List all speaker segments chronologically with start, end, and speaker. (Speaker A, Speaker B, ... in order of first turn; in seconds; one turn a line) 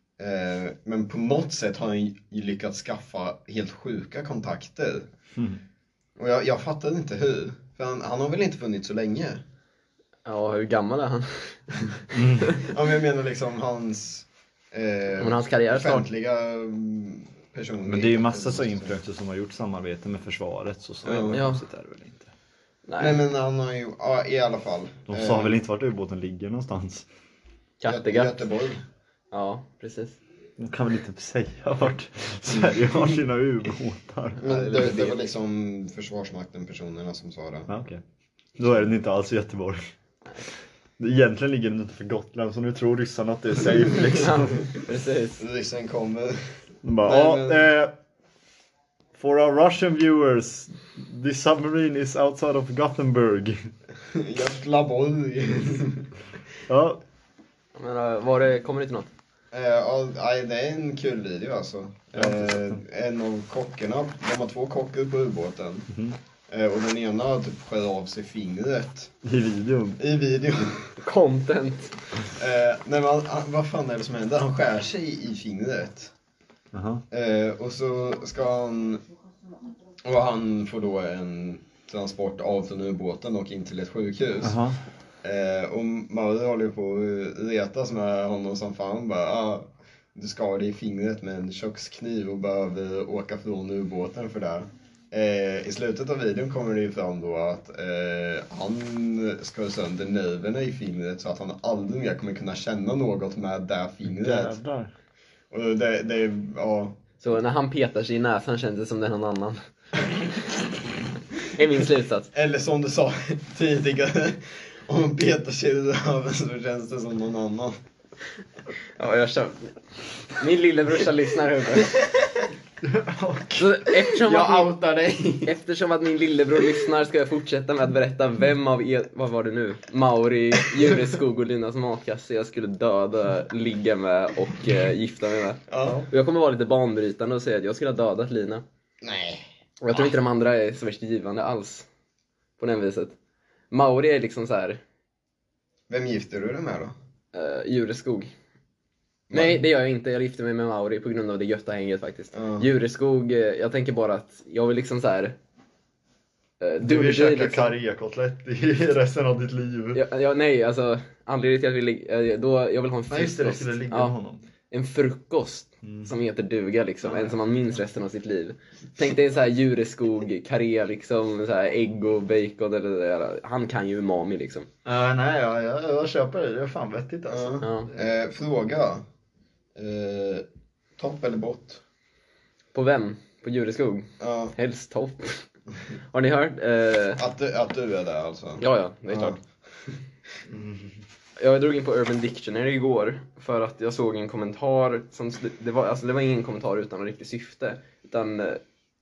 Speaker A: 0.2-5.1
Speaker B: 5.3-5.6
Speaker A: 6.2-9.4
Speaker C: 10.2-12.7
Speaker B: 12.1-12.5
Speaker A: 12.6-18.9
Speaker C: 15.2-16.1
Speaker B: 17.9-22.3
Speaker A: 21.1-21.4
Speaker C: 21.3-21.6
Speaker C: 22.9-23.2
Speaker A: 23.0-25.5
Speaker B: 25.1-27.1
Speaker C: 27.8-28.5
Speaker A: 27.9-28.8
Speaker C: 29.3-30.2
Speaker B: 30.6-34.4
Speaker A: 34.4-37.7
Speaker C: 34.4-35.2
Speaker B: 37.7-38.0
Speaker B: 38.6-39.8
Speaker B: 41.0-44.7
Speaker C: 44.1-45.4
Speaker A: 45.4-47.7
Speaker B: 46.8-48.0
Speaker B: 49.2-53.7
Speaker A: 54.1-56.1
Speaker B: 56.7-57.0
Speaker C: 57.8-59.1
Speaker A: 59.5-65.9
Speaker B: 62.2-62.8
Speaker B: 65.9-66.2
Speaker A: 66.5-69.1
Speaker B: 69.2-70.0
Speaker A: 70.0-71.0
Speaker C: 71.0-72.0
Speaker A: 72.2-76.1
Speaker B: 76.7-77.0
Speaker A: 77.1-79.0
Speaker A: 80.0-84.6
Speaker B: 84.4-84.8
Speaker A: 85.2-104.6
Speaker B: 104.1-104.9
Speaker A: 105.5-107.0
Speaker C: 107.2-109.6
Speaker C: 111.5-112.3
Speaker A: 112.3-117.8
Speaker C: 119.0-122.0
Speaker B: 122.8-123.7
Speaker C: 123.6-124.8
Speaker A: 124.2-125.5
Speaker C: 125.4-138.7
Speaker A: 135.7-136.1
Speaker A: 139.0-140.1
Speaker C: 139.8-141.9
Speaker C: 142.6-143.2
Speaker C: 143.7-144.8
Speaker A: 145.9-146.9
Speaker C: 147.3-148.3
Speaker A: 149.3-149.6
Speaker C: 149.3-155.4
Speaker A: 152.3-152.7
Speaker C: 156.6-157.7
Speaker B: 156.8-160.0
Speaker C: 159.9-164.1
Speaker B: 163.1-164.4
Speaker C: 164.7-174.7
Speaker B: 165.8-166.1
Speaker B: 167.1-167.4
Speaker B: 174.8-177.7
Speaker A: 177.3-179.0
Speaker C: 177.6-177.9
Speaker A: 179.8-180.4
Speaker A: 181.0-181.8
Speaker C: 182.7-185.5
Speaker A: 184.2-184.6
Speaker C: 186.1-187.2
Speaker A: 187.2-189.9
Speaker C: 188.6-189.4
Speaker B: 190.5-191.0
Speaker C: 191.4-198.6